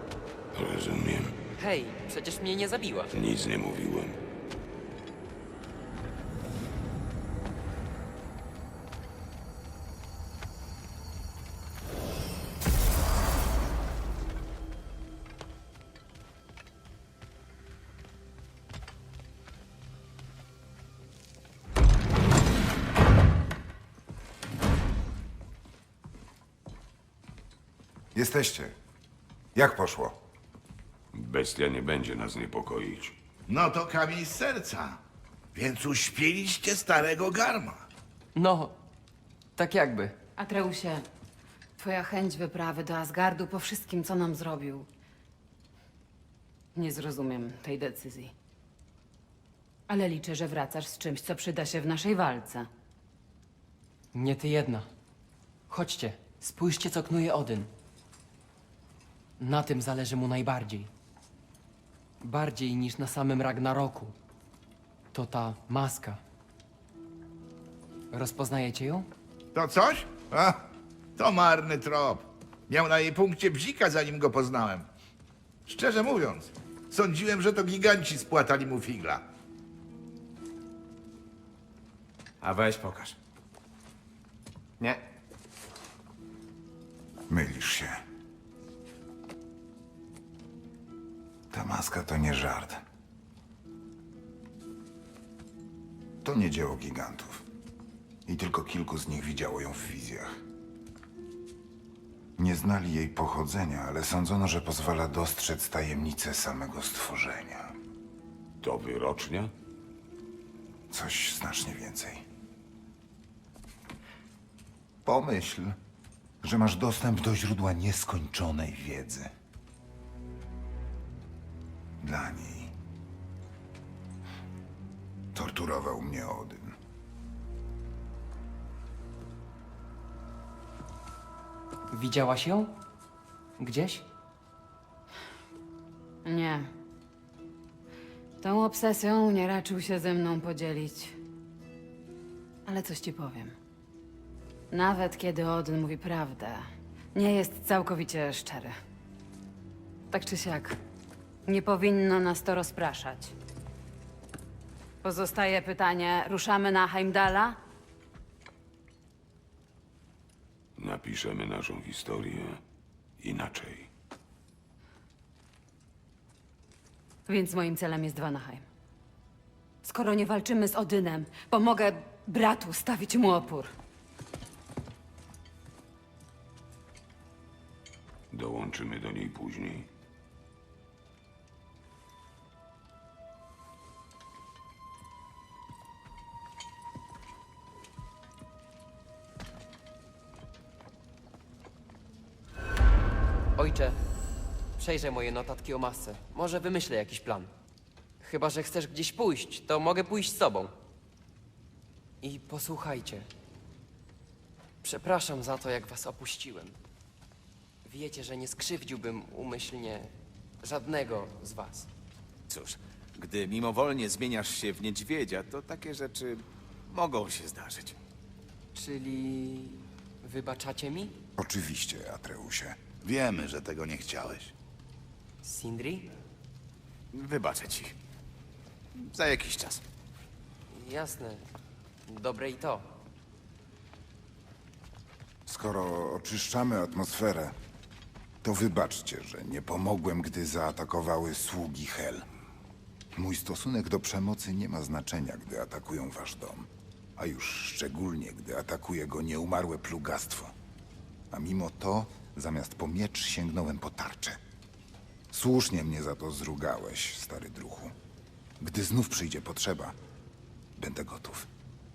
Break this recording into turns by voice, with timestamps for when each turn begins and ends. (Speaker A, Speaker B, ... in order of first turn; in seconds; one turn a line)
Speaker A: 0.5-1.4
Speaker B: 1.6-3.1
Speaker A: 3.1-4.2
Speaker C: 28.1-28.7
Speaker C: 29.5-30.1
Speaker A: 31.1-33.1
Speaker D: 33.5-35.0
Speaker D: 35.5-37.8
Speaker B: 38.4-38.8
Speaker B: 39.6-40.2
Speaker E: 40.4-41.0
Speaker E: 41.8-44.9
Speaker E: 46.8-48.3
Speaker E: 49.9-52.7
Speaker B: 54.1-54.9
Speaker B: 55.7-57.7
Speaker B: 59.4-60.9
Speaker B: 62.2-64.2
Speaker B: 65.1-66.2
Speaker B: 68.1-69.1
Speaker D: 69.5-70.6
Speaker D: 71.2-74.9
Speaker D: 75.7-79.2
Speaker F: 82.4-83.2
Speaker C: 87.3-88.0
Speaker C: 91.5-92.8
Speaker C: 96.2-97.5
Speaker C: 98.3-100.4
Speaker C: 102.4-107.7
Speaker A: 108.6-109.5
Speaker C: 110.9-112.2
Speaker C: 115.0-115.8
Speaker C: 116.4-119.3
Speaker C: 122.0-122.7
Speaker C: 125.3-126.8
Speaker B: 131.9-132.8
Speaker B: 133.6-134.0
Speaker E: 136.2-136.7
Speaker E: 138.4-141.2
Speaker E: 142.7-143.6
Speaker E: 144.7-148.8
Speaker E: 150.1-150.8
Speaker E: 151.5-153.3
Speaker E: 155.0-157.6
Speaker A: 160.8-162.6
Speaker A: 163.2-163.9
Speaker E: 167.3-168.7
Speaker E: 169.8-173.7
Speaker A: 178.3-179.9
Speaker B: 193.6-194.0
Speaker B: 194.8-197.5
Speaker B: 198.2-200.8
Speaker B: 202.2-203.3
Speaker B: 204.8-206.8
Speaker B: 207.8-210.1
Speaker B: 210.6-211.9
Speaker F: 212.5-218.0
Speaker B: 218.8-221.2
Speaker C: 221.4-222.8
Speaker D: 223.0-224.5
Speaker B: 225.4-226.1
Speaker F: 227.1-227.9
Speaker F: 228.9-229.8
Speaker B: 230.7-231.4
Speaker B: 232.1-232.9
Speaker C: 235.5-237.6
Speaker C: 238.4-242.2
Speaker C: 243.1-250.5
Speaker C: 251.3-254.4
Speaker C: 255.3-257.9
Speaker C: 258.6-260.0
Speaker C: 260.8-261.5